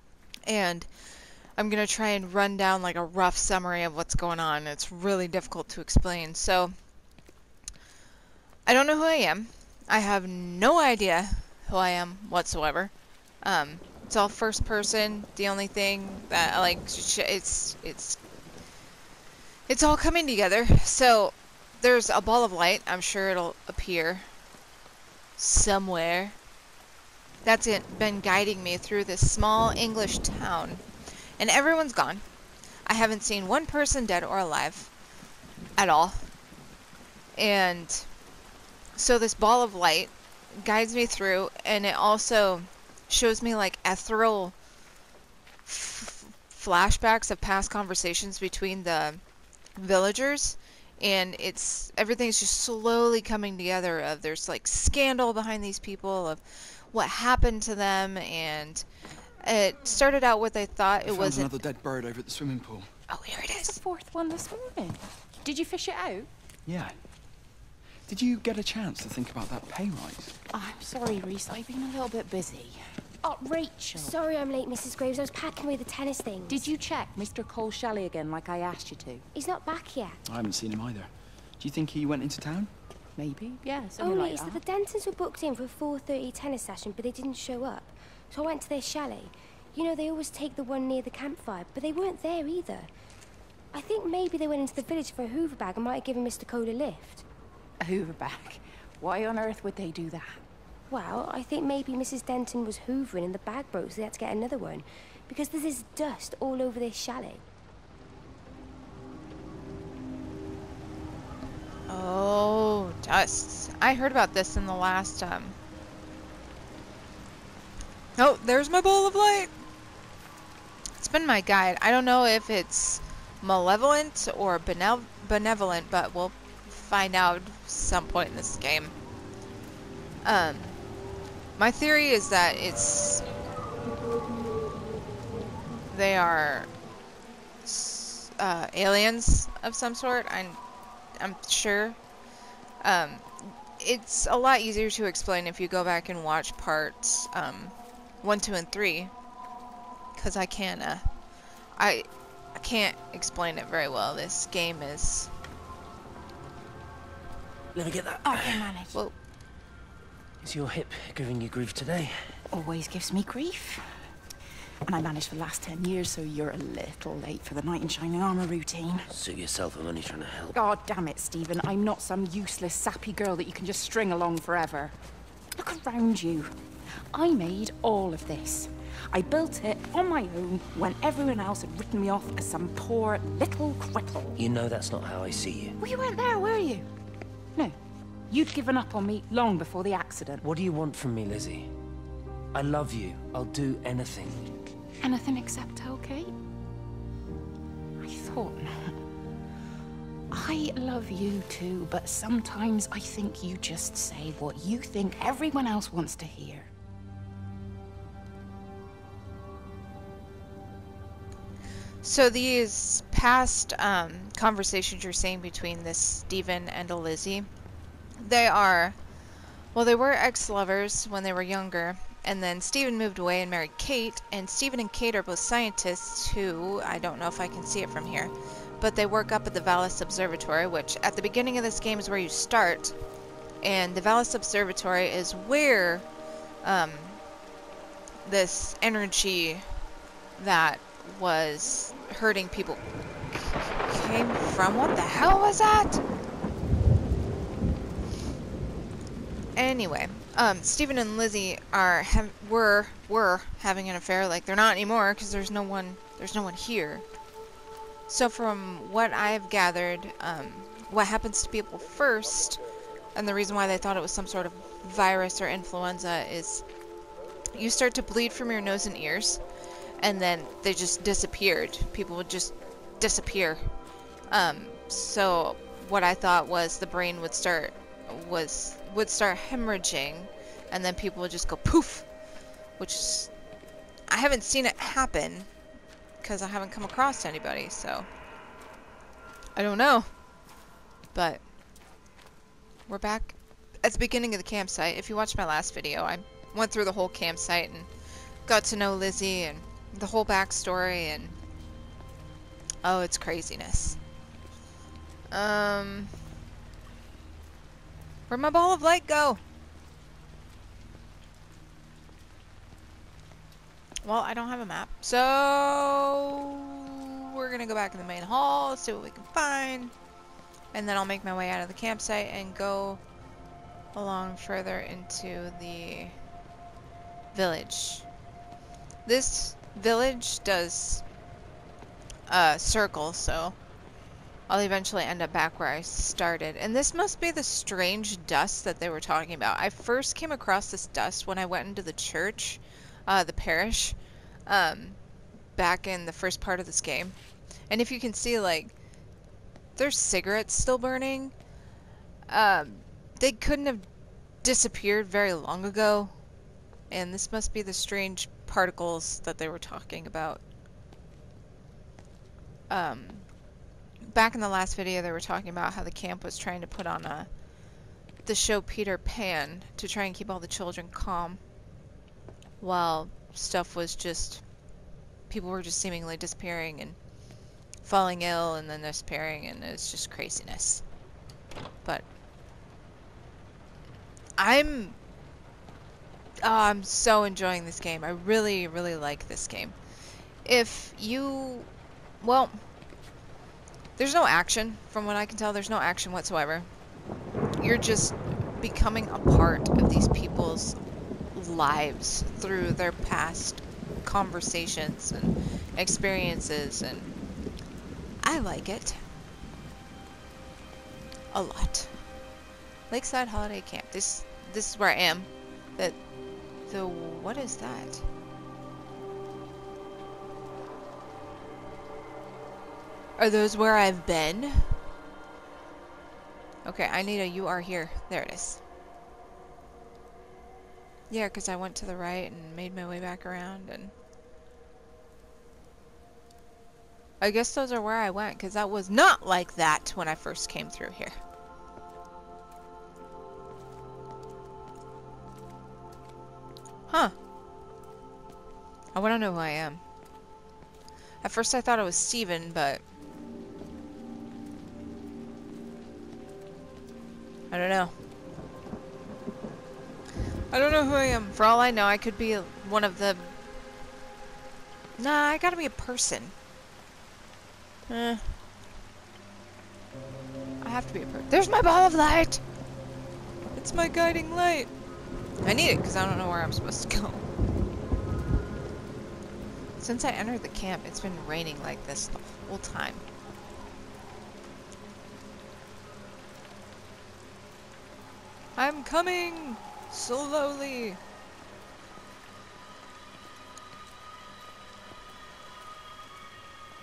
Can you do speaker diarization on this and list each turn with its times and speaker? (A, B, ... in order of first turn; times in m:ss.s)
0:00.5-0:00.9 A
0:01.6-0:06.7 A
0:08.6-0:12.9 A
0:13.4-0:18.2 A
0:19.7-0:24.3 A
0:25.4-0:26.4 A
0:27.4-0:30.8 A
0:31.4-0:32.2 A
0:32.8-0:34.9 A
0:35.8-0:36.2 A
0:37.4-0:38.1 A
0:39.0-0:44.5 A
0:45.6-0:49.2 A
0:49.8-0:56.4 A
0:56.9-0:58.8 A
0:59.4-1:01.5 A
1:01.0-1:02.9 B
1:03.1-1:03.8 A
1:03.6-1:06.3 C
1:06.6-1:07.0 B
1:08.1-1:10.4 B
1:10.5-1:14.1 C
1:13.9-1:16.7 D
1:16.5-1:19.2 C
1:19.3-1:20.2 D
1:20.2-1:22.7 B
1:23.2-1:24.6 C
1:24.0-1:32.9 D
1:33.7-1:37.2 D
1:37.8-1:40.4 C
1:40.9-1:47.4 D
1:51.9-1:55.6 A
1:58.2-1:59.5 A
2:01.0-2:08.9 A
2:10.2-2:10.8 A
2:11.6-2:13.2 A
2:15.9-2:16.7 A
2:17.6-2:20.6 A
2:21.2-2:22.0 A
2:22.8-2:29.1 A
2:30.2-2:31.0 A
2:31.8-2:35.3 A
2:37.7-2:38.7 E
2:38.2-2:38.9 C
2:40.4-2:42.4 E
2:42.5-2:44.1 C
2:44.9-2:49.1 C
2:49.1-2:50.6 E
2:50.5-2:54.9 C
2:55.6-2:56.5 C
2:57.1-3:04.4 C
3:04.4-3:05.8 E
3:05.8-3:06.8 C
3:08.3-3:10.4 C
3:10.4-3:11.7 E
3:12.5-3:14.4 E
3:15.0-3:16.3 C
3:18.0-3:19.0 C
3:20.3-3:26.7 C
3:32.0-3:37.5 A
3:38.2-3:39.0 A
3:39.7-3:53.0 A
3:53.6-3:56.0 A
3:56.6-3:57.2 A
3:58.2-3:59.6 A
4:00.4-4:06.0 A
4:09.6-4:17.0 A
4:18.1-4:22.6 A
4:23.1-4:26.6 A
4:27.6-4:29.4 A
4:30.0-4:33.6 A
4:34.3-4:42.1 A
4:42.8-4:43.3 A
4:44.1-4:45.5 A
4:46.2-4:48.1 A
4:49.6-4:50.1 A
4:51.1-4:51.4 A
4:52.9-4:57.9 A
4:58.4-5:01.4 A
5:02.8-5:04.0 A
5:05.3-5:06.1 A
5:08.3-5:09.4 A
5:14.0-5:19.9 A
5:20.7-5:23.0 A
5:23.9-5:26.2 A
5:27.3-5:28.0 A
5:29.0-5:31.0 A
5:32.3-5:33.6 A
5:34.5-5:44.0 A
5:44.5-5:45.0 A
5:45.6-5:47.2 A
5:47.7-5:48.7 A
5:49.8-5:51.3 A
5:52.3-5:53.9 A
5:54.4-5:56.1 A
5:56.9-6:00.4 A
6:02.7-6:03.3 A
6:04.0-6:07.3 A
6:08.2-6:11.4 A
6:12.6-6:14.4 A
6:15.3-6:17.0 A
6:17.8-6:20.8 A
6:24.4-6:25.0 A
6:26.4-6:29.7 A
6:30.4-6:31.7 A
6:32.2-6:32.6 A
6:34.0-6:36.7 A
6:37.6-6:40.8 A
6:41.3-6:47.1 A
6:48.2-6:49.0 A
6:51.3-6:51.9 A
6:52.9-6:56.0 A
6:56.7-6:58.0 A
7:03.2-7:04.7 A
7:06.6-7:08.6 A
7:11.1-7:13.9 A
7:17.2-7:21.2 A
7:28.9-7:29.8 A
7:31.2-7:32.8 A
7:37.5-7:37.9 A
7:40.5-7:43.3 A
7:45.0-7:46.3 A
7:47.9-7:48.3 A
7:50.6-7:52.4 A
7:53.5-7:54.7 A
7:55.4-7:57.2 A
7:59.8-8:03.0 A
8:08.6-8:11.0 A